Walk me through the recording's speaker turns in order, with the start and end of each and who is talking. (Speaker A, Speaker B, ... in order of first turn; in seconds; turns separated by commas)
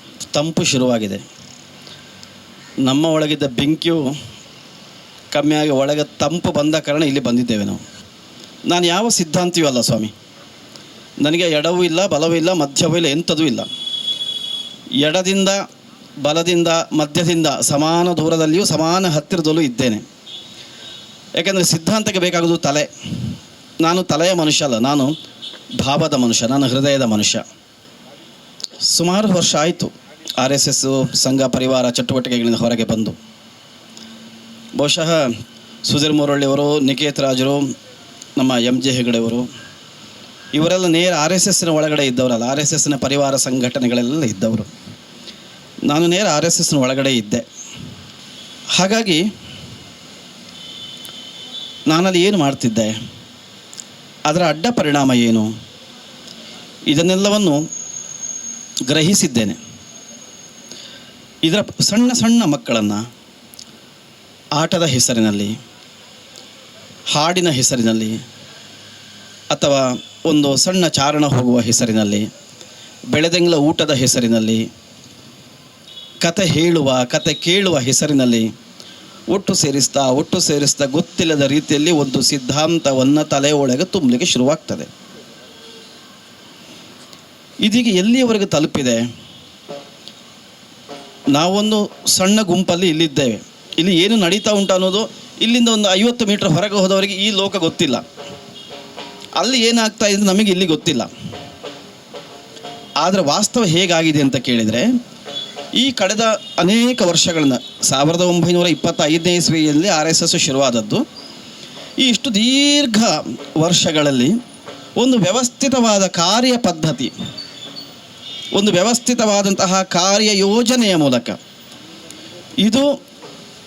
Speaker A: 0.3-1.2, Speaker A: 2.8-4.1, Speaker A: 5.3-7.8, Speaker A: 8.7-10.1, Speaker A: 11.2-13.7, Speaker A: 15.0-15.6, Speaker A: 16.2-20.0, Speaker A: 21.4-22.9, Speaker A: 23.8-25.1, Speaker A: 25.8-27.4, Speaker A: 28.9-33.2, Speaker A: 34.8-35.3, Speaker A: 35.8-37.6, Speaker A: 38.4-39.5, Speaker A: 40.5-44.7, Speaker A: 45.9-47.4, Speaker A: 48.8-49.2, Speaker A: 51.9-52.9, Speaker A: 54.3-55.5, Speaker A: 56.9-57.6, Speaker A: 58.9-59.6, Speaker A: 61.4-63.0, Speaker A: 64.6-65.5, Speaker A: 67.1-68.2, Speaker A: 69.5-72.3, Speaker A: 73.1-74.7, Speaker A: 76.2-78.5, Speaker A: 79.3-84.9, Speaker A: 87.6-89.0, Speaker A: 91.3-98.0, Speaker A: 99.4-101.1, Speaker A: 103.0-104.9, Speaker A: 105.8-111.0, Speaker A: 112.0-114.3, Speaker A: 115.0-117.1, Speaker A: 118.5-121.4, Speaker A: 122.6-122.9